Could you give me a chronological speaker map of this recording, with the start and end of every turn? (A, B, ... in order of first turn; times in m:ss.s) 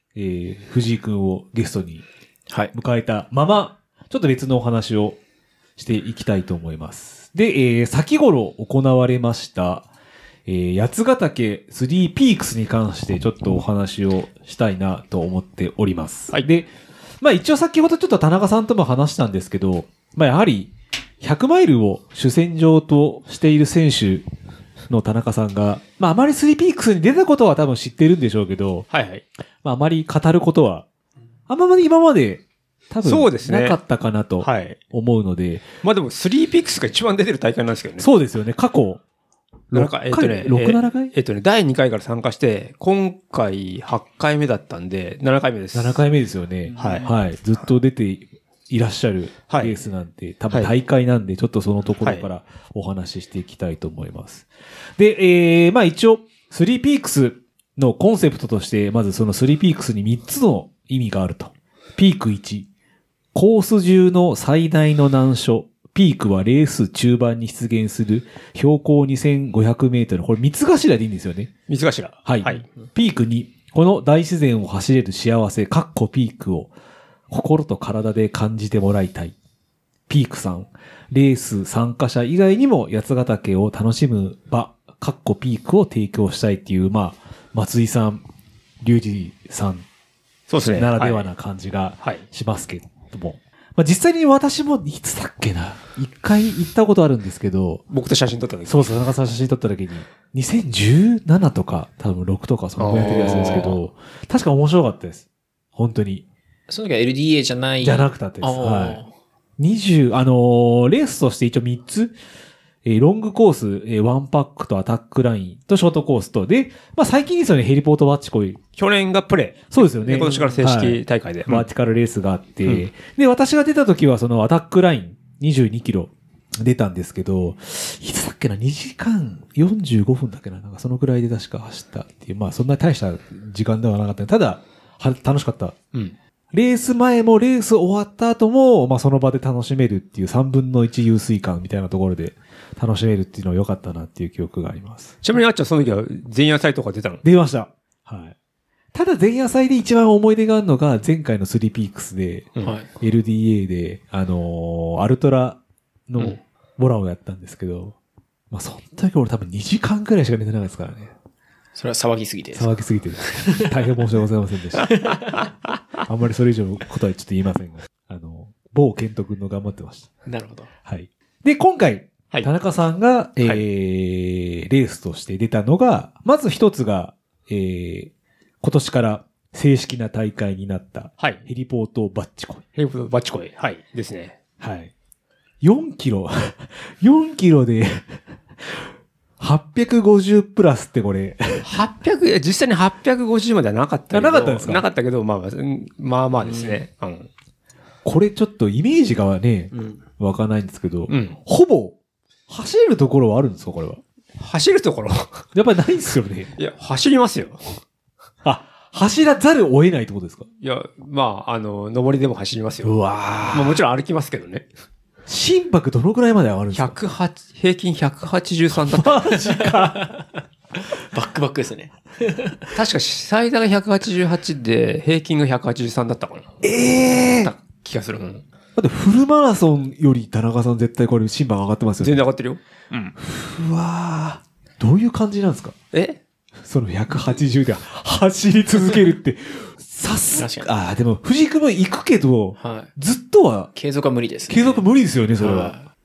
0:00.1-0:02.0 A
0:02.7-0:05.2 A
0:05.8-0:09.9 A
0:10.4-0:16.7 A
0:17.2-0:24.3 A
0:24.9-0:28.8 A
0:28.9-0:29.2 B
0:29.6-0:30.8 A
0:31.5-0:35.6 A
0:33.0-0:33.8 B
0:34.4-0:34.8 B
0:35.8-0:38.1 B
0:38.0-0:39.0 A
0:39.7-0:41.1 A
0:39.7-0:46.0 B
0:45.7-1:02.7 A
0:46.8-0:47.1 B
0:49.5-0:49.8 B
0:52.0-0:52.3 B
1:03.3-1:11.5 A
1:11.7-1:12.6 B
1:12.2-1:16.7 A
1:17.3-1:19.3 A
1:20.1-1:28.2 A
1:28.8-1:29.8 A
1:30.5-1:31.3 B
1:30.6-1:37.8 A
1:37.9-1:39.0 B
1:38.7-1:46.2 A
1:42.8-1:43.7 B
1:43.0-1:43.8 C
1:46.7-1:49.1 C
1:47.8-1:49.0 A
1:49.6-1:52.1 A
1:52.8-1:58.6 A
1:58.8-2:01.7 B
1:59.7-2:15.8 A
2:16.5-2:25.1 A
2:25.2-2:27.2 B
2:27.2-2:28.3 A
2:28.9-2:38.0 A
2:32.6-2:32.9 C
2:38.5-2:41.1 A
2:41.7-2:42.7 C
2:42.5-2:45.1 A
2:43.2-2:43.7 C
2:44.9-2:45.5 C
2:46.0-2:50.1 A
2:50.2-2:50.7 C
2:50.8-3:02.6 A
3:01.2-3:01.4 B
3:02.8-3:04.4 B
3:04.6-3:04.9 A
3:05.6-3:08.9 A
3:09.4-3:11.7 A
3:11.6-3:17.3 B
3:14.1-3:14.8 A
3:18.0-3:22.0 A
3:19.7-3:20.0 C
3:21.1-3:21.4 B
3:22.5-3:24.0 A
3:24.4-3:25.4 B
3:25.5-3:26.5 A
3:26.6-3:27.6 B
3:28.4-3:30.5 A
3:30.6-3:32.9 B
3:32.8-3:33.8 A
3:33.5-3:34.7 B
3:35.3-3:37.0 A
3:36.7-3:39.4 B
3:38.9-3:40.2 A
3:39.4-3:40.2 C
3:40.8-3:42.7 C
3:42.7-3:46.6 B
3:46.6-3:47.5 A
3:47.2-3:48.4 B
3:48.8-3:52.3 A
3:52.0-3:53.1 B
3:53.2-3:55.7 A
3:55.9-3:56.2 B
3:56.6-4:03.7 A
4:00.3-4:00.7 C
4:02.6-4:02.9 C
4:03.7-4:04.9 C
4:04.5-4:05.7 A
4:05.4-4:05.8 C